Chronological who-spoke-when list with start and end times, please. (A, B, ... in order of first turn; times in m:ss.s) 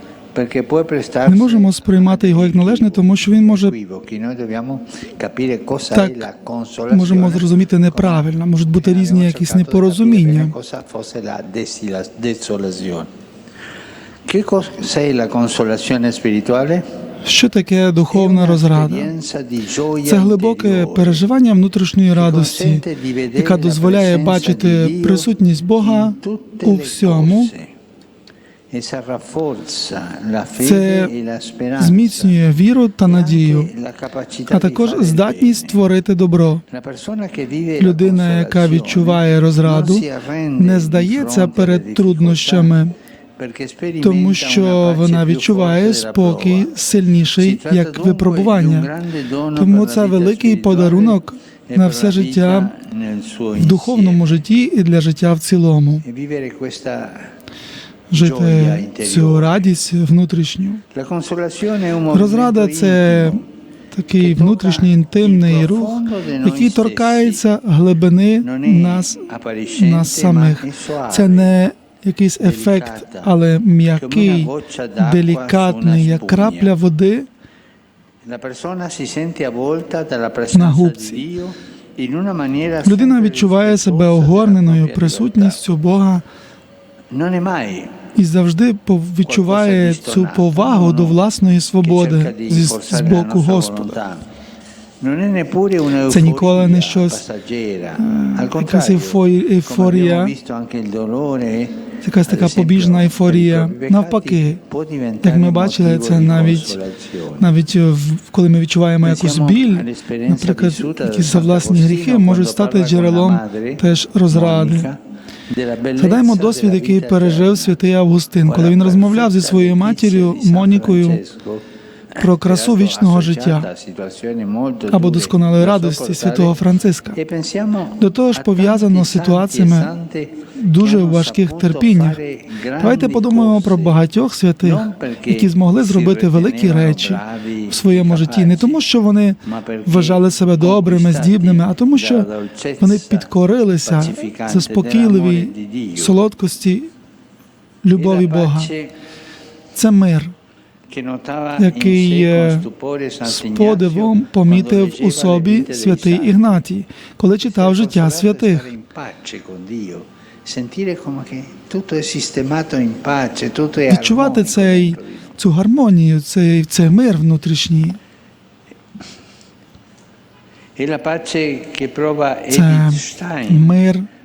0:00.3-0:13.1 A
0:01.2-0:03.7 B
0:05.9-0:06.2 B
0:06.9-0:10.5 B
0:14.2-0:16.8 A
0:17.2-0:19.1 B
0:18.1-0:21.2 A
0:20.0-0:27.5 B
0:22.1-0:27.7 A
0:28.7-0:32.4 A
0:30.6-0:31.1 B
0:31.8-0:33.7 B
0:33.0-0:35.8 A
0:34.5-0:36.6 B
0:36.7-0:42.8 A
0:37.8-0:40.0 B
0:40.6-0:42.9 B
0:43.4-0:46.7 A
0:44.0-0:48.9 B
0:47.4-0:54.4 A
0:49.5-0:52.7 B
0:53.5-0:56.0 B
0:56.0-0:57.3 A
0:58.1-1:00.8 B
0:58.1-0:59.7 A
1:00.9-1:03.4 A
1:02.1-1:17.3 B
1:04.2-1:07.4 A
1:08.4-1:11.5 A
1:12.4-1:13.4 A
1:13.9-1:16.8 A
1:18.2-1:25.6 A
1:20.5-1:21.2 B
1:22.8-1:26.2 B
1:27.1-1:28.0 A
1:28.1-1:34.0 B
1:29.2-1:31.2 A
1:31.8-1:34.2 A
1:35.0-1:47.5 A
1:36.1-1:37.2 B
1:38.0-1:40.3 B
1:42.0-1:44.6 B
1:45.2-1:46.8 B
1:47.4-1:54.9 B
1:49.0-1:55.0 A
1:55.5-1:57.8 A
1:56.0-2:01.2 B
1:58.4-2:01.6 A
2:02.1-2:06.6 A
2:02.2-2:03.7 B
2:04.9-2:07.2 B
2:07.1-2:14.0 A
2:08.0-2:09.9 B
2:10.5-2:12.2 B
2:12.8-2:22.3 B
2:14.6-2:18.8 A
2:19.4-2:23.3 A
2:22.8-2:26.9 B
2:23.8-2:26.2 A
2:27.8-2:28.7 B
2:28.0-2:28.9 A
2:29.7-2:30.3 B
2:30.9-2:36.4 A
2:31.6-2:32.7 B
2:33.2-2:38.7 B
2:37.4-2:45.3 A
2:43.9-2:48.0 B
2:50.8-2:53.8 A
2:52.5-2:54.1 B